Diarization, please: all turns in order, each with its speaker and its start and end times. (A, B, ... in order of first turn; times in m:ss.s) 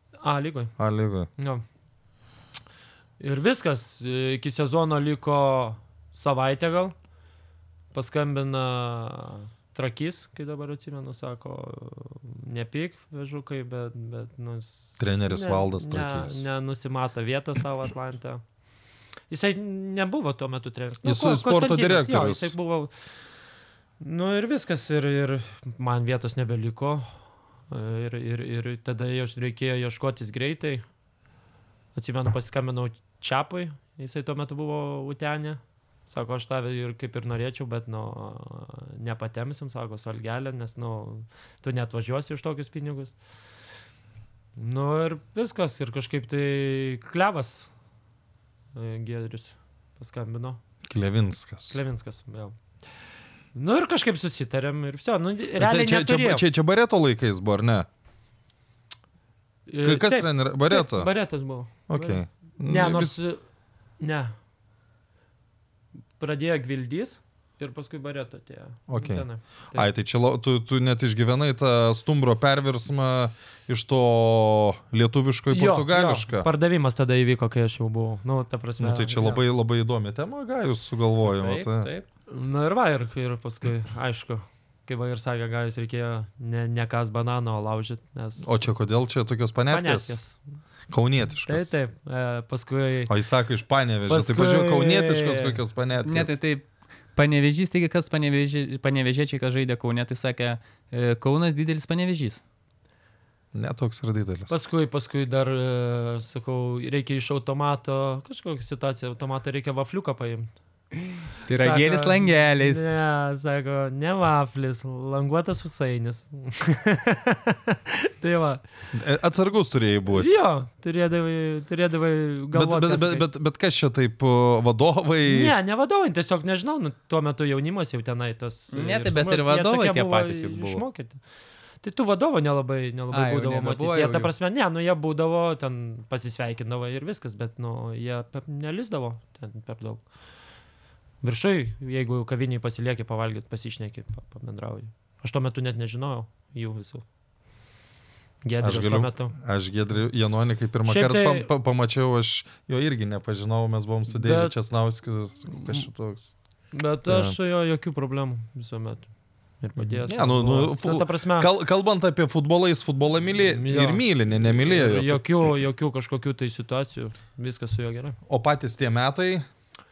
0:00.2-0:00.7 A
0:00.8-0:01.3 B
0:01.4-0:01.6 A
0:03.2-0:06.9 A
0:07.9-0:18.4 A
0:15.0-0:16.5 B
0:19.3-0:22.9 A
0:21.0-0:22.5 B
0:24.0-0:27.0 A
0:27.7-0:30.8 A
0:31.9-0:43.1 A
0:44.6-0:47.7 A
0:48.7-0:50.6 A
0:50.8-0:51.8 B
0:51.7-0:52.5 A
0:53.5-0:56.4 A
0:55.6-0:57.9 B
0:59.7-1:03.4 A
0:59.8-1:01.1 B
1:01.9-1:03.1 B
1:04.0-1:04.3 A
1:06.2-1:09.9 A
1:08.9-1:16.5 B
1:15.5-1:19.4 A
1:18.8-1:21.9 B
1:21.2-1:22.0 C
1:22.3-1:28.6 A
1:28.4-1:30.2 B
1:29.7-1:30.4 A
1:30.9-1:31.8 B
1:31.4-1:33.1 A
1:33.1-1:36.4 B
1:34.1-1:35.6 A
1:36.0-1:42.4 C
1:43.5-1:44.6 B
1:44.5-1:50.5 A
1:51.4-1:52.8 C
1:51.5-1:58.6 A
1:58.9-2:00.3 B
2:00.1-2:03.3 A
2:02.5-2:05.5 B
2:05.2-2:11.2 A
2:08.7-2:10.8 C
2:11.8-2:20.0 A
2:13.1-2:14.3 C
2:21.2-2:27.0 A
2:28.4-2:29.3 A
2:28.6-2:36.3 B
2:30.8-2:31.5 A
2:34.1-2:34.5 A
2:35.6-2:35.8 A
2:36.7-2:39.1 A
2:37.0-2:37.4 B
2:39.6-2:41.5 A
2:39.8-2:45.5 B
2:43.5-2:48.2 A
2:48.3-2:49.4 B